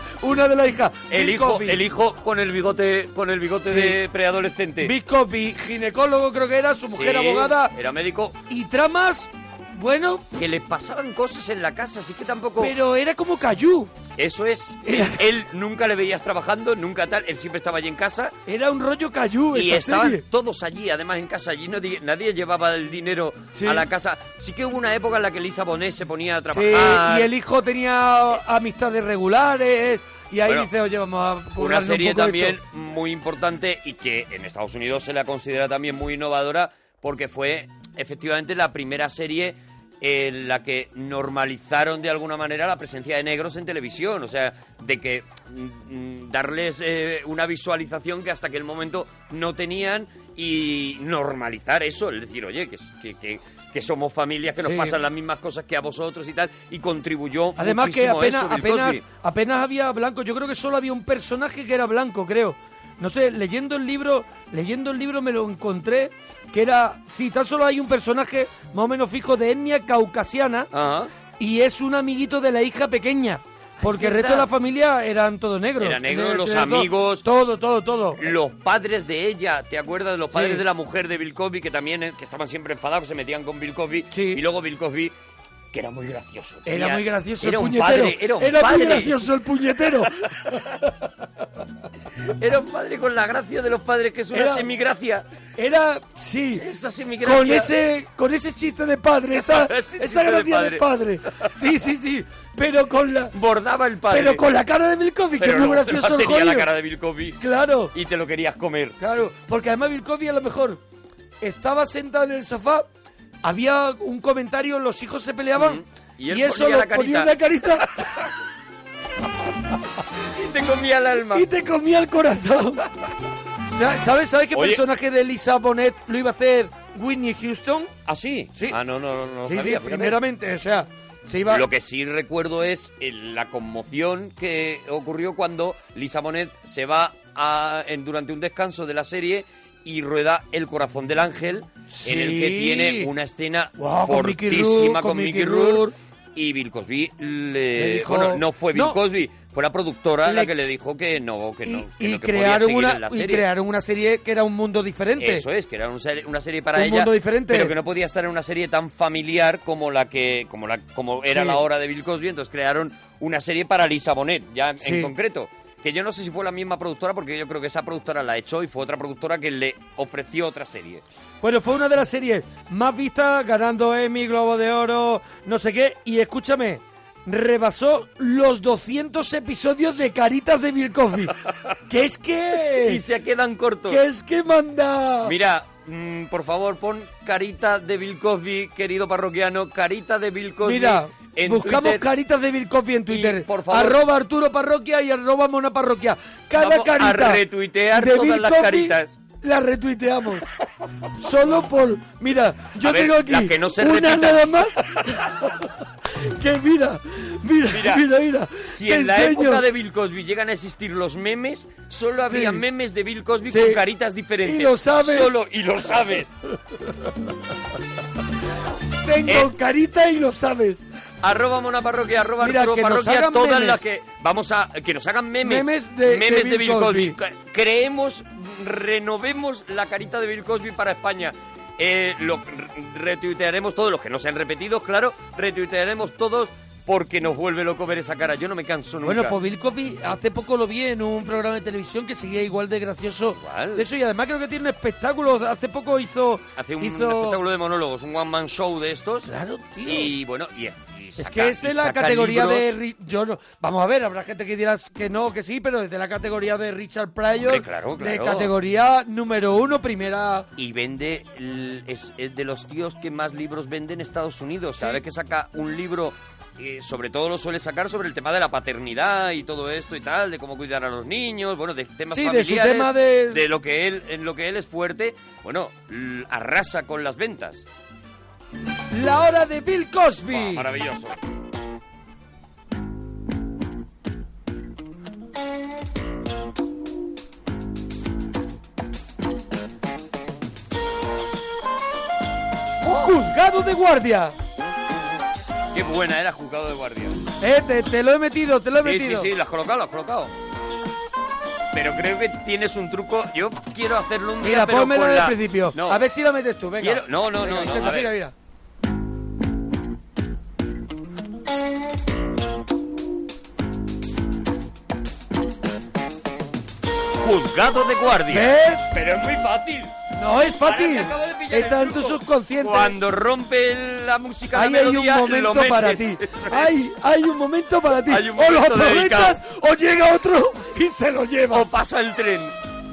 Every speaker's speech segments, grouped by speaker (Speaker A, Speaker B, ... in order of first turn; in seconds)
Speaker A: 0.2-1.8, 3.6-4.0, 4.8-7.7, 8.5-10.2, 12.6-13.9, 14.8-15.2, 18.5-20.2, 23.5-23.9, 26.5-32.6, 54.6-55.0, 57.6-70.7, 71.4-78.2, 80.3-80.6, 84.1-84.4, 86.7-90.1, 94.3-94.7, 95.6-96.6, 97.2-103.3, 104.1-106.7, 107.4-107.9, 109.0-110.8, 111.4-112.8, 113.4-118.0, 121.3-122.8, 123.7-127.9, 129.4-131.6, 141.9-143.1, 143.8-145.9, 147.7-149.0, 150.2-150.5, 151.6-155.4, 156.7-157.7, 161.3-161.6, 164.8-165.1, 171.4-181.3, 181.9-183.0, 183.9-185.3, 190.6-200.4, 201.2-205.7, 206.2-209.6, 212.3-212.6, 213.4-213.8, 214.4-215.4, 219.0-220.9, 222.4-223.8, 225.4-227.1, 239.1-247.4, 249.3-250.1, 251.2-260.5, 272.1-273.4, 278.9-280.7, 292.8-294.4, 297.4-299.3, 304.4-308.3, 318.3-318.9, 320.1-322.9, 324.5-331.6
Speaker B: 1.1-4.9, 6.9-8.4, 10.4-12.7, 14.2-18.4, 19.5-27.3, 31.6-59.0, 70.7-71.1, 73.8-74.5, 75.8-77.3, 78.2-85.1, 85.7-89.2, 90.1-90.8, 92.3-95.3, 96.6-97.7, 99.4-100.8, 103.3-104.5, 105.4-107.4, 107.9-109.0, 115.6-118.3, 120.2-121.5, 124.5-124.8, 128.1-130.2, 131.5-145.8, 146.3-153.5, 155.2-171.0, 182.7-184.0, 185.2-192.1, 193.1-194.0, 196.6-199.2, 202.8-205.0, 207.7-208.0, 208.6-216.3, 221.2-239.3, 243.3-243.8, 246.6-249.3, 249.8-252.7, 257.4-258.5, 260.6-277.6, 280.3-281.2, 295.7-297.2, 298.8-300.3, 301.7-306.0, 306.8-308.1, 317.2-319.9, 320.6-326.7, 328.1-329.4, 331.5-332.6